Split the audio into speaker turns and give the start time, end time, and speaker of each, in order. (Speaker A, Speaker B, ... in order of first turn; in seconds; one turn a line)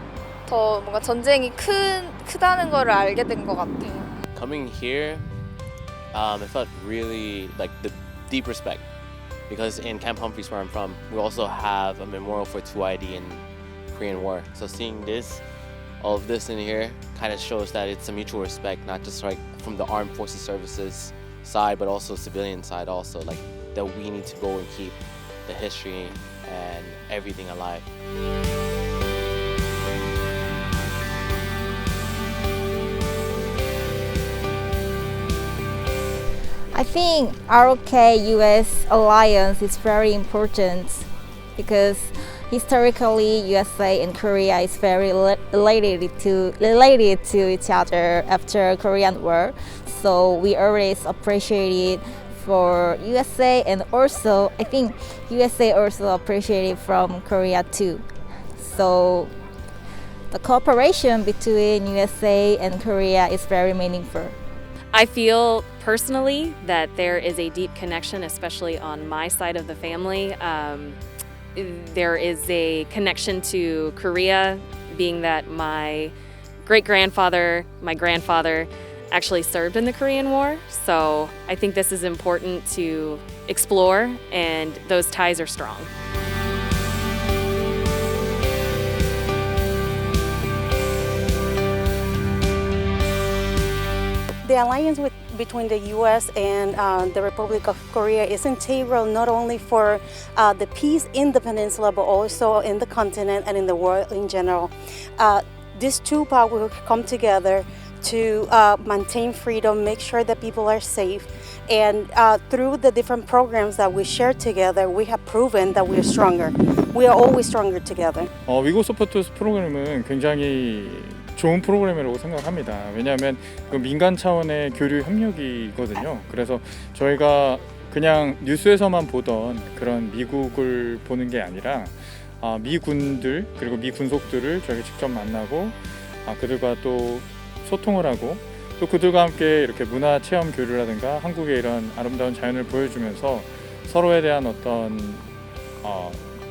Speaker A: 0.5-4.2
Speaker B: 4.3-5.2
Speaker B: 6.1-8.8
Speaker B: 9.5-15.4
Speaker B: 16.0-27.9
Speaker C: 36.7-58.0
Speaker C: 58.6-59.3
Speaker C: 60.3-64.3
Speaker D: 64.9-71.0
Speaker D: 71.5-85.9
Speaker E: 94.4-118.3
Speaker F: 118.5-145.2
Speaker F: 145.8-146.2